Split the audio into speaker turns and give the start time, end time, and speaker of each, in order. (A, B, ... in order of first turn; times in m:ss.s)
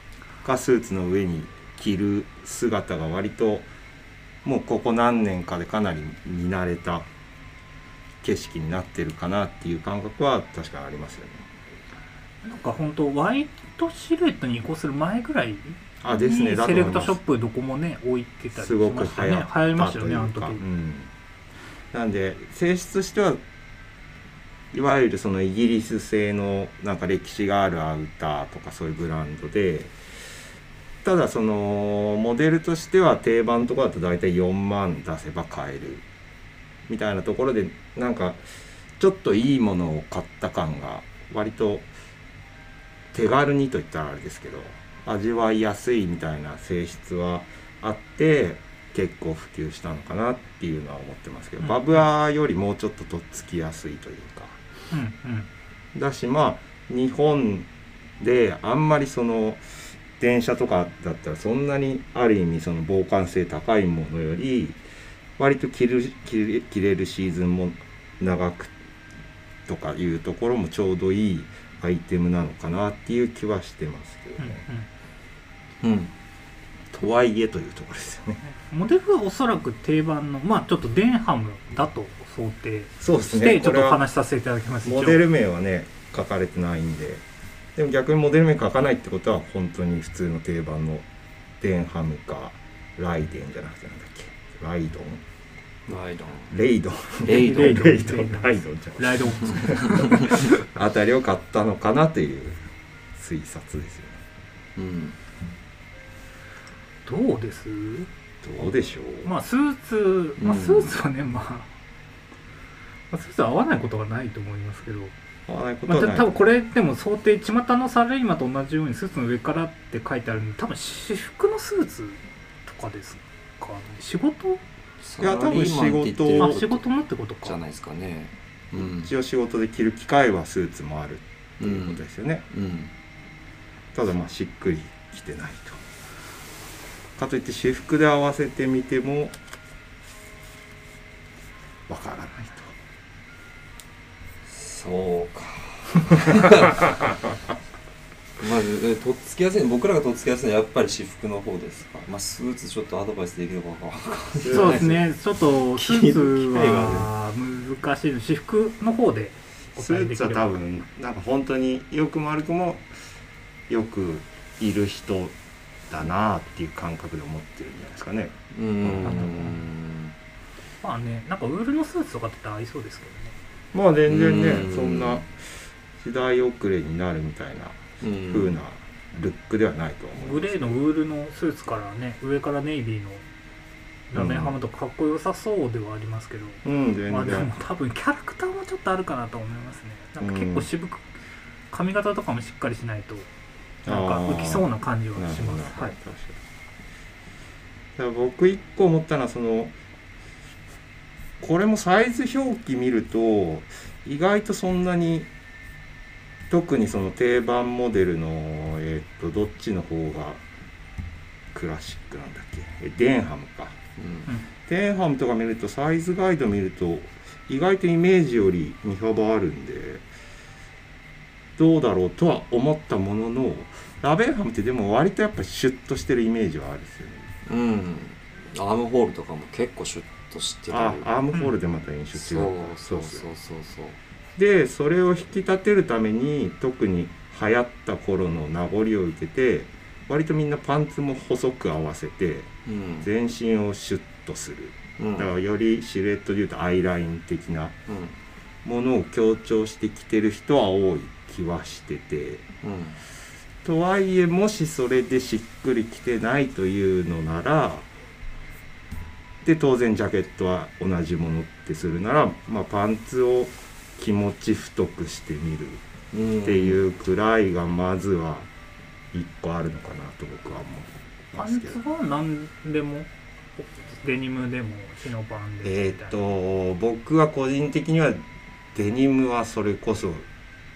0:00.4-0:03.7 A
0:04.4-0:07.0 A
0:08.2-0:11.4 A
0:12.4-0:20.6 B
0:16.0-0:17.2 A
0:18.6-0:21.1 A
0:21.9-0:23.4 A
0:24.7-0:29.9 A
0:31.0-0:36.0 A
0:36.9-0:38.4 A
0:39.0-0:41.9 A
0:43.1-0:54.6 A
0:51.6-0:52.0 B
0:54.9-0:55.5 B
0:55.9-0:57.7 A
0:58.2-1:04.8 A
1:05.4-1:08.7 A
1:09.7-1:14.6 A
1:14.4-1:14.9 B
1:15.8-1:16.1 C
1:16.9-1:18.4 A
1:18.4-1:25.2 B
1:23.0-1:24.0 A
1:24.8-1:27.2 A
1:27.8-1:31.0 A
1:31.6-1:35.2 A
1:35.9-1:36.5 C
1:36.5-1:42.6 A
1:37.2-1:38.0 C
1:37.3-1:40.3 B
1:43.2-1:44.2 A
1:44.8-1:45.2 C
1:47.0-1:48.1 B
1:48.4-1:49.3 A
1:48.6-1:51.7 B
1:50.4-1:50.9 C
1:53.1-1:55.1 B
1:55.5-1:56.4 A
1:55.9-2:04.6 B
2:05.0-2:06.8 C
2:05.2-2:06.6 A
2:06.3-2:07.6 B
2:07.4-2:09.1 C
2:08.7-2:12.4 A
2:11.6-2:12.9 C
2:13.9-2:15.8 A
2:17.2-2:19.4 A
2:21.9-2:22.7 A
2:24.5-2:26.9 C
2:28.4-2:37.1 C
2:34.4-2:35.0 A
2:34.4-2:40.6 B
2:39.8-2:42.9 A
2:43.7-2:45.3 A
2:45.9-2:49.5 A
2:48.5-2:50.1 C
2:49.0-2:49.5 B
2:50.8-2:53.4 B
2:53.7-2:55.4 A
2:54.1-2:55.2 C
2:56.0-3:00.8 A
2:58.0-2:58.6 C
3:00.2-3:03.2 B
3:04.1-3:11.1 B
3:04.1-3:04.6 A
3:06.6-3:07.5 A
3:10.2-3:10.7 A
3:11.7-3:13.3 B
3:13.8-3:16.4 A
3:13.8-3:16.0 B
3:18.0-3:19.7 A
3:21.4-3:25.3 A
3:26.5-3:30.4 A
3:31.5-3:33.8 A
3:34.0-3:34.3 C
3:34.7-3:40.0 A
3:41.6-3:47.3 A
3:47.4-3:51.1 C
3:50.7-3:53.3 A
3:52.1-3:54.0 C
3:54.4-4:02.5 A
4:02.6-4:03.1 C
4:03.0-4:07.8 A
4:05.0-4:05.3 C
4:07.9-4:08.1 C
4:08.6-4:12.4 A
4:12.6-4:13.0 C
4:13.6-4:17.8 A
4:19.4-4:25.8 A
4:26.1-4:26.8 C
4:26.4-4:28.5 A
4:29.1-4:31.8 A
4:31.4-4:36.2 B
4:35.6-4:38.2 A
4:38.7-4:40.2 A